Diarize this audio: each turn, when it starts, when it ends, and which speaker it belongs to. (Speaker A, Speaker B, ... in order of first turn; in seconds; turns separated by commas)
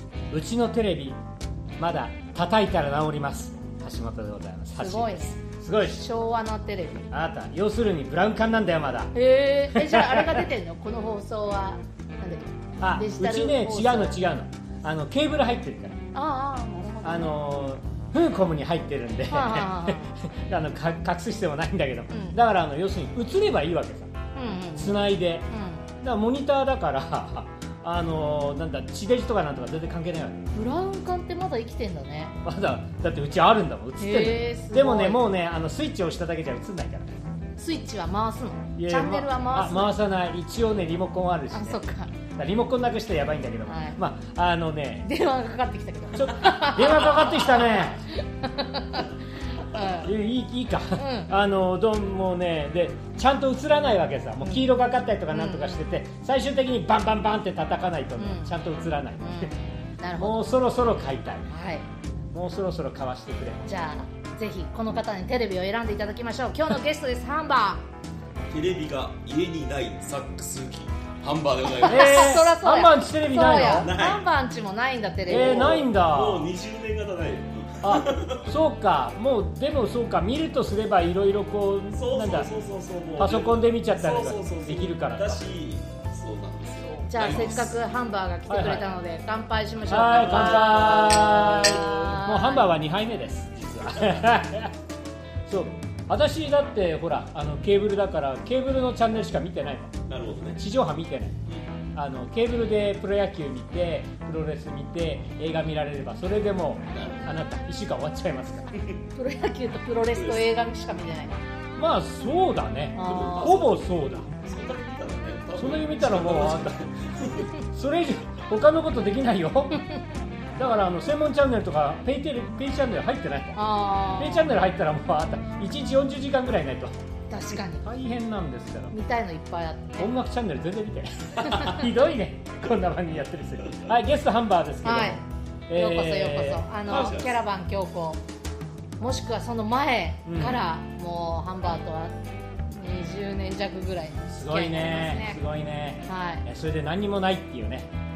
Speaker A: 0.3-1.2, Speaker A: 1.8-6.0, Speaker B: 4.8-7.1, Speaker A: 7.1-9.1, Speaker B: 9.1-14.2, Speaker A: 9.7-10.5, Speaker A: 12.8-16.0, Speaker B: 16.1-17.4, Speaker A: 17.0-24.1, Speaker B: 19.3-20.1, Speaker B: 22.1-22.4, Speaker B: 24.4-25.9, Speaker A: 24.8-25.5, Speaker A: 26.0-30.4, Speaker B: 30.5-32.4, Speaker A: 32.4-37.1, Speaker B: 34.0-35.2, Speaker B: 37.6-40.0, Speaker A: 38.8-41.8, Speaker B: 41.5-42.2, Speaker A: 42.4-45.1, Speaker B: 43.6-44.0, Speaker B: 45.0-50.1, Speaker A: 46.1-48.0, Speaker A: 50.0-59.5, Speaker B: 51.0-51.3, Speaker B: 54.4-54.7, Speaker B: 55.3-55.8, Speaker B: 58.2-58.5, Speaker B: 59.2-60.4, Speaker A: 60.2-61.5, Speaker B: 61.5-61.9, Speaker A: 62.3-63.7, Speaker B: 63.6-67.9, Speaker C: 68.5-72.4, Speaker B: 71.7-75.7, Speaker A: 71.8-73.9, Speaker C: 73.7-74.3, Speaker A: 75.3-76.5, Speaker C: 75.3-78.5, Speaker A: 77.8-82.5, Speaker C: 81.9-87.7, Speaker A: 83.2-85.4, Speaker B: 87.1-92.7, Speaker A: 88.5-88.9, Speaker A: 89.9-94.7, Speaker C: 90.1-92.0, Speaker C: 93.8-94.2, Speaker A: 95.5-99.9, Speaker C: 100.1-100.6, Speaker A: 100.6-101.4, Speaker A: 101.9-108.7, Speaker C: 106.9-107.3, Speaker C: 108.7-109.0, Speaker B: 109.2-111.4, Speaker C: 110.1-110.5, Speaker A: 111.8-114.3, Speaker B: 113.0-113.5, Speaker C: 113.0-117.5, Speaker A: 115.5-116.8, Speaker A: 117.7-119.8, Speaker A: 120.6-123.6, Speaker B: 123.6-124.5, Speaker A: 124.2-127.0, Speaker B: 127.3-127.9, Speaker A: 127.8-128.9, Speaker B: 128.9-130.1, Speaker A: 130.0-137.2, Speaker B: 131.4-131.8, Speaker B: 134.8-138.2, Speaker C: 136.9-137.3, Speaker B: 139.0-142.2, Speaker A: 140.2-140.6, Speaker B: 142.7-145.4, Speaker A: 144.3-147.9, Speaker B: 146.1-146.4